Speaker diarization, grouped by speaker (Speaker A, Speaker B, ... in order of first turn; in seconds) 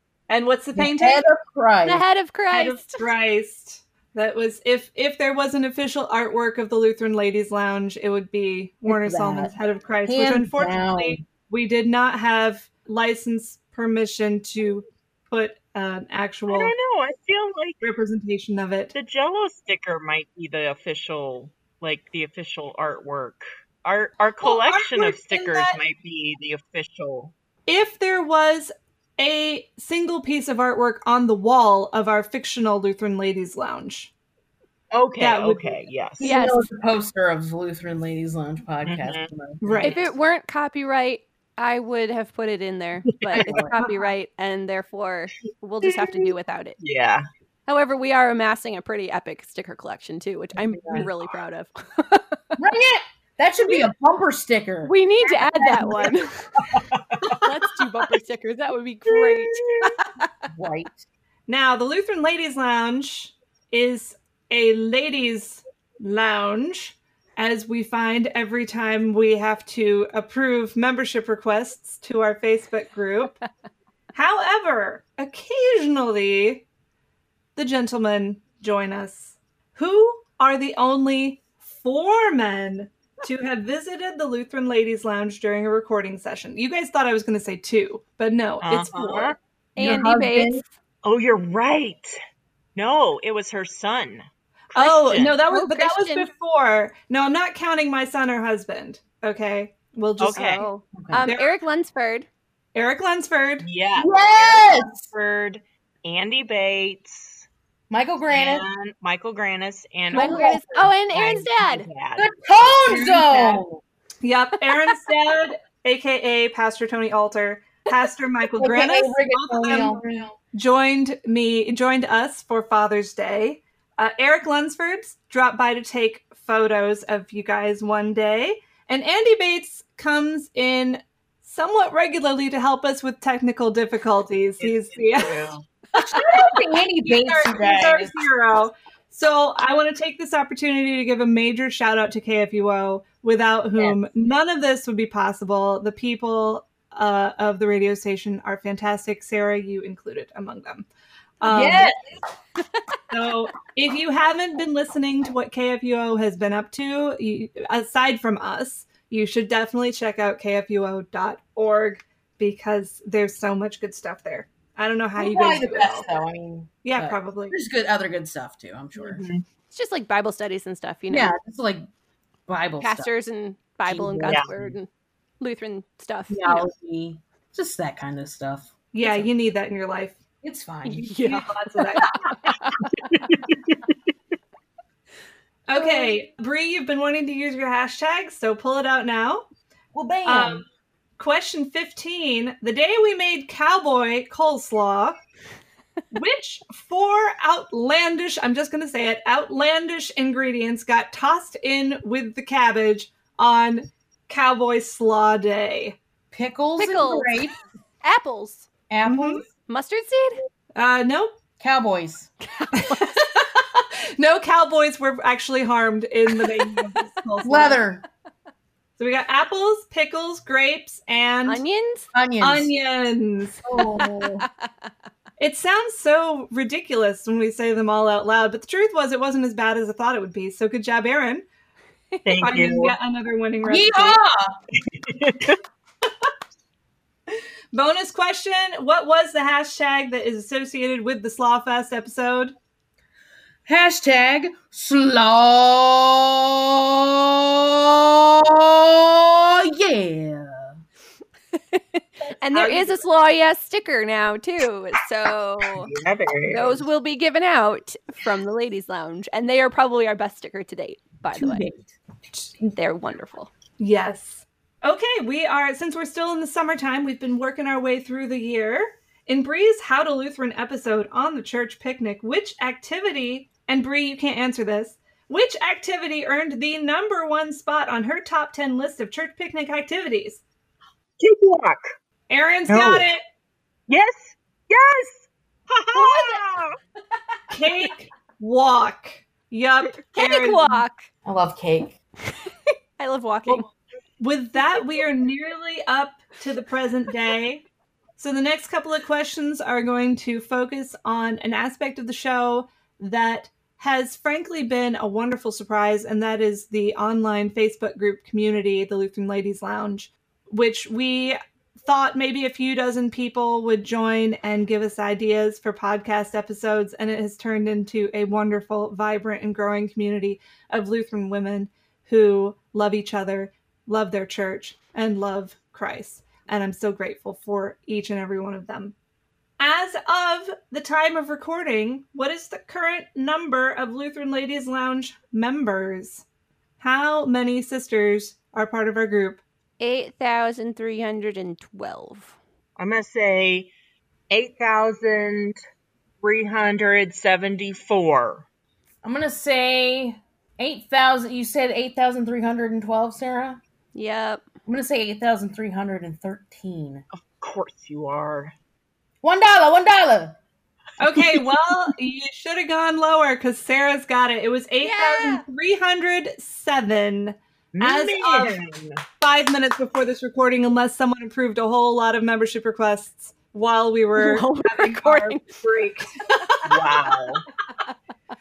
Speaker A: 0.3-1.3, 2.5-16.7, 17.8-18.9, 24.4-25.8, 27.7-34.1, 35.2-35.7, 39.6-40.0, 61.5-73.4, 74.1-76.6, 77.5-89.3, 94.7-100.6, 101.2-101.5, 102.7-103.7, 112.8-113.6, 114.2-135.4, 137.0-150.9, 151.4-151.9, 153.1-166.1, 166.8-167.6, 178.9-180.2, 181.2-182.2, 185.7-189.4, 190.2-190.6, 191.2-195.2, 196.1-206.0, 209.0-209.4, 210.8-211.3, 212.7-217.8, 219.0-221.6, 222.4-223.6, 225.4-231.4, 232.4-234.2, 237.7-242.5, 252.5-253.0, 263.8-280.4, 282.3-283.2, 285.9-286.4, 287.5-290.8, 294.2-297.6, 298.2-328.9, 329.6-336.2, 336.8-339.4, 361.0-368.6, 369.2-376.9
Speaker B: 0.7-2.0, 8.8-9.5, 10.0-11.2, 36.2-39.9, 43.3-43.8, 50.5-51.1, 52.6-56.2, 60.5-61.0, 89.8-90.6, 100.9-101.3, 104.0-105.1, 107.9-108.7, 110.1-110.9, 112.2-113.8, 118.6-120.3, 136.0-138.2, 151.4-152.0, 165.2-169.2, 171.1-171.8, 172.5-173.1, 173.8-174.8, 176.3-179.3, 180.4-181.1, 189.9-190.6, 206.3-207.6, 208.9-209.4, 211.6-212.3, 217.4-218.0, 222.1-222.7, 223.6-224.5, 233.6-234.6, 243.7-250.8, 261.3-261.9, 291.2-292.0, 349.0-353.6, 354.6-357.0, 359.2-360.4
Speaker C: 1.8-3.1, 36.2-36.7, 39.8-46.8, 47.7-52.4, 54.8-56.5, 57.4-60.1, 89.8-90.7, 95.5-96.3, 100.3-102.3, 110.1-111.9, 169.7-171.3, 172.8-174.9, 175.4-176.7, 180.8-182.9, 185.8-186.1, 206.8-207.5, 208.0-208.7, 209.6-210.4, 212.5-213.2, 221.4-222.1, 223.8-224.4, 251.7-255.9, 256.5-261.6, 262.6-263.5, 290.1-291.1, 293.0-293.7, 339.8-342.4, 353.9-354.5, 364.8-365.4, 374.2-375.4
Speaker D: 16.5-17.8, 18.9-27.3, 34.9-36.3, 38.8-40.0, 43.2-43.5, 46.8-47.2, 56.9-57.4, 88.6-89.3, 91.0-92.1, 92.7-95.4, 100.2-100.6, 103.6-107.5, 108.3-112.8, 134.6-135.6, 169.0-169.4, 183.1-183.8, 232.2-232.9, 234.9-235.6, 255.6-256.8, 281.2-281.9, 282.7-283.1, 283.9-286.7, 342.8-343.7, 344.3-345.6, 346.2-348.4, 357.4-358.5, 367.7-369.0, 376.6-377.4